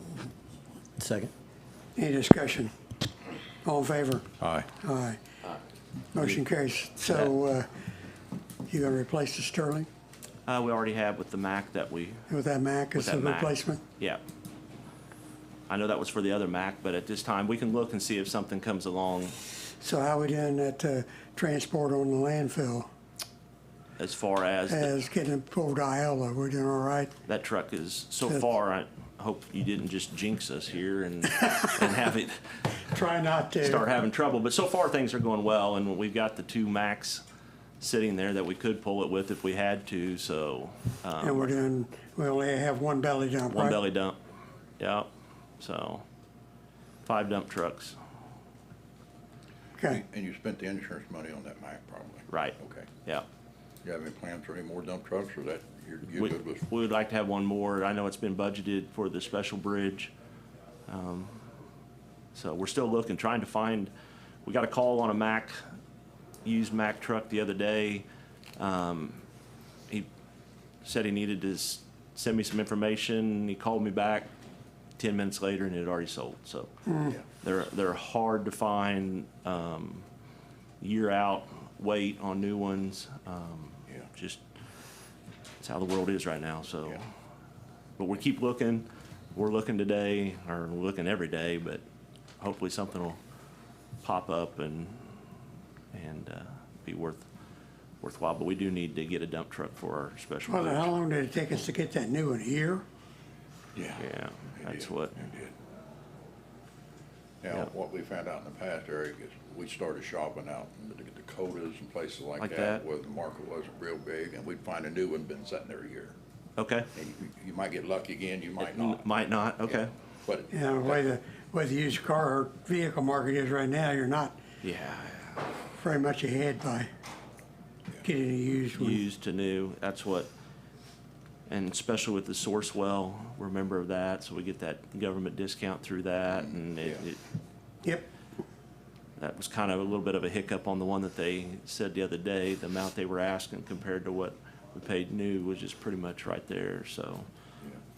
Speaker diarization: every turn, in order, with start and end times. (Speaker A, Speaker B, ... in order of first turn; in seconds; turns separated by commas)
Speaker A: 1.9-2.7, Speaker A: 3.6-5.2, Speaker B: 4.4-4.7, Speaker A: 6.1-7.7, Speaker A: 8.7-9.9, Speaker C: 10.4-12.3, Speaker A: 12.3-13.8, Speaker C: 12.9-14.2, Speaker C: 15.7-19.4, Speaker A: 19.8-22.9, Speaker C: 24.0-24.9, Speaker A: 24.7-27.1, Speaker C: 27.2-32.7, Speaker A: 32.9-33.9, Speaker C: 33.6-37.2, Speaker C: 37.8-41.6, Speaker A: 41.2-43.8, Speaker C: 43.5-44.2, Speaker C: 44.8-45.1, Speaker C: 45.6-46.0, Speaker C: 47.0-48.0, Speaker B: 49.9-52.9, Speaker C: 52.3-53.2, Speaker B: 53.8-56.6, Speaker C: 56.2-60.1, Speaker C: 60.9-61.4, Speaker C: 62.3-63.9, Speaker C: 64.4-65.6, Speaker C: 66.4-68.0, Speaker C: 68.6-69.2, Speaker C: 70.8-74.3, Speaker C: 75.0-76.7, Speaker A: 76.9-77.1, Speaker C: 77.4-80.0, Speaker C: 80.8-84.4, Speaker C: 85.6-87.0, Speaker C: 88.0-91.8, Speaker C: 92.4-93.2, Speaker C: 94.0-95.2, Speaker C: 95.9-97.2, Speaker C: 98.0-100.9, Speaker A: 100.5-102.8, Speaker B: 103.7-104.1, Speaker C: 104.0-105.3, Speaker B: 104.6-105.5, Speaker B: 107.4-116.2, Speaker C: 112.4-112.8, Speaker C: 116.6-116.9, Speaker B: 116.9-119.1, Speaker C: 118.6-119.9, Speaker B: 119.7-121.0, Speaker A: 120.5-124.4, Speaker C: 124.6-125.5, Speaker A: 125.7-126.9, Speaker A: 128.0-129.0, Speaker C: 128.8-130.3, Speaker C: 131.5-137.2, Speaker C: 139.2-147.2